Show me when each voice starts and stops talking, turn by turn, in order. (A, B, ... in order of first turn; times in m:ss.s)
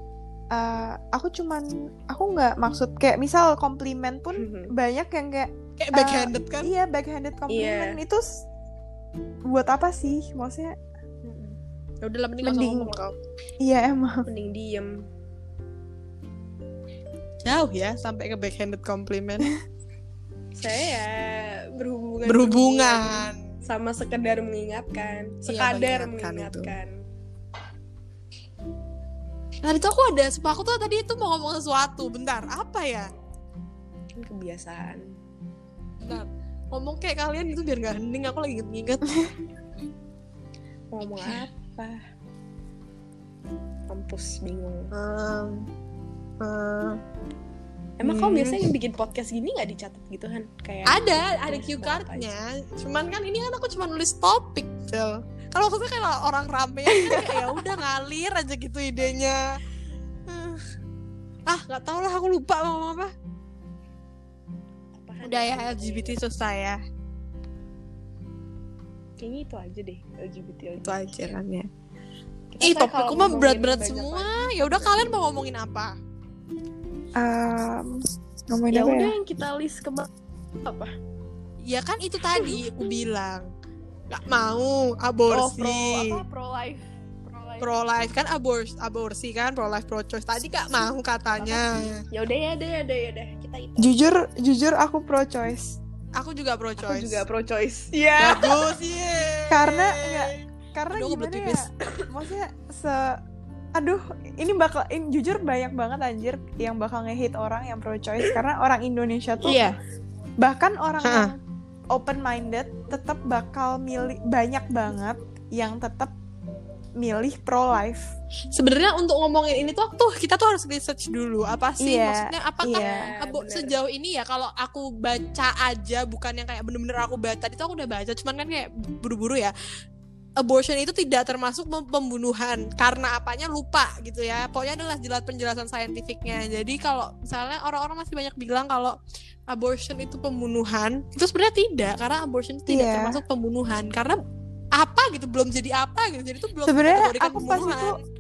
0:00.5-0:08.4 A
0:04.4-0:04.7 B
0:05.8-0:06.7 C
0:07.5-0:08.0 B
0:09.5-0:10.8 A
0:11.3-0:13.2 C
0:12.4-0:13.0 A
0:13.6-0:14.2 A
0:14.3-0:15.0 B
0:17.4-0:19.5 C
0:20.6-0:26.9 B
0:22.3-0:23.4 C
0:25.5-0:26.7 C
0:29.6-0:33.1 C
0:34.2-0:35.1 B
0:36.0-0:39.2 C
0:40.9-0:42.0 B
0:43.9-0:44.9 B
0:44.9-0:45.6 C
0:46.4-0:47.0 C
0:48.0-0:52.3 B
0:48.0-0:48.6 C
0:50.9-0:59.4 C
0:56.9-0:57.5 B
1:00.3-1:00.6 C
1:01.5-1:03.1 C
1:05.0-1:06.2 B
1:05.2-1:06.8 C
1:09.2-1:11.3 B
1:10.8-1:11.7 C
1:12.5-1:15.2 B
1:12.6-1:16.0 C
1:17.2-1:19.2 A
1:18.7-1:20.1 B
1:20.6-1:20.9 B
1:21.6-1:23.5 C
1:24.1-1:26.2 C
1:25.3-1:27.8 B
1:27.6-1:32.0 C
1:31.4-1:34.0 B
1:33.8-1:35.8 A
1:36.2-1:37.2 C
1:36.8-1:38.4 B
1:37.9-1:38.6 A
1:38.2-1:40.4 C
1:39.5-1:43.2 A
1:40.9-1:41.7 C
1:43.8-1:49.7 A
1:49.4-1:49.8 C
1:50.4-1:51.4 A
1:51.0-1:51.3 C
1:51.9-1:56.1 A
1:57.0-1:58.1 A
1:58.5-2:09.5 C
2:01.8-2:03.1 A
2:02.7-2:03.8 B
2:10.4-2:19.0 C
2:19.5-2:24.2 C
2:22.7-2:23.2 A
2:24.8-2:28.0 C
2:26.6-2:28.0 A